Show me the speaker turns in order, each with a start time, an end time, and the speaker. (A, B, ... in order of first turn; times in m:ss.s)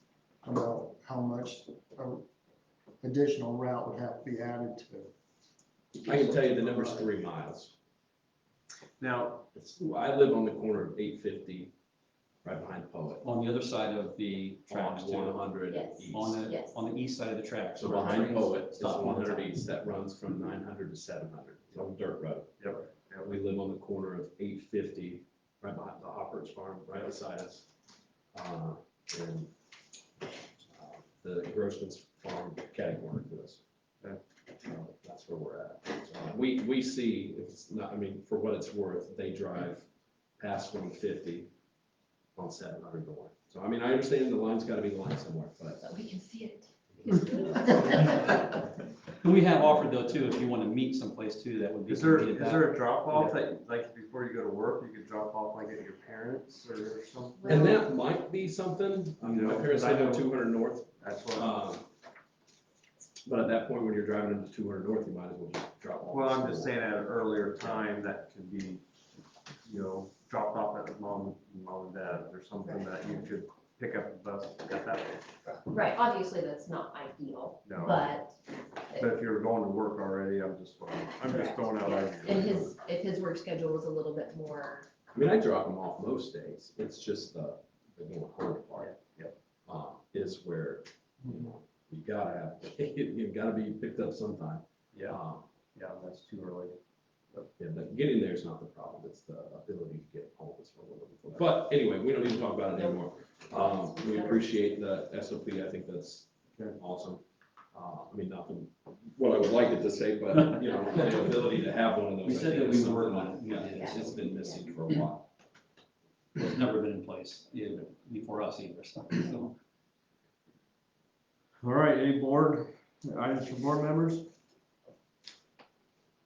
0:00.4-0:02.2 A
0:03.0-0:05.1 A
0:06.0-0:07.7 B
0:09.0-0:09.4 C
0:09.5-0:11.7 B
0:12.4-0:13.2 B
0:13.2-0:19.5 D
0:14.7-0:16.5 B
0:15.7-0:16.7 E
0:17.7-0:22.7 B
0:22.6-0:23.4 C
0:23.2-0:27.7 B
0:28.3-0:29.5 B
0:30.7-0:33.6 B
0:34.6-0:39.8 B
0:40.4-0:41.5 B
0:42.4-0:45.9 B
0:45.8-0:48.3 E
0:46.9-0:48.0 B
0:48.0-0:48.3 D
0:49.2-0:53.4 D
0:51.9-0:57.6 C
0:57.4-0:57.8 E
0:57.4-1:01.8 B
0:59.2-1:00.4 C
1:01.0-1:01.6 C
1:03.2-1:07.9 B
1:06.1-1:08.8 C
1:09.6-1:15.5 C
1:12.6-1:13.2 E
1:15.7-1:18.3 E
1:17.6-1:18.2 C
1:18.9-1:22.8 C
1:21.2-1:24.9 E
1:25.1-1:29.0 B
1:28.8-1:29.3 C
1:29.7-1:35.4 B
1:34.9-1:35.2 C
1:35.7-1:36.8 C
1:37.6-1:47.2 B
1:42.7-1:44.5 E
1:47.7-1:55.3 B
1:52.2-1:54.4 D
1:53.7-1:54.6 E
1:56.4-1:59.5 D
2:01.6-2:04.3 C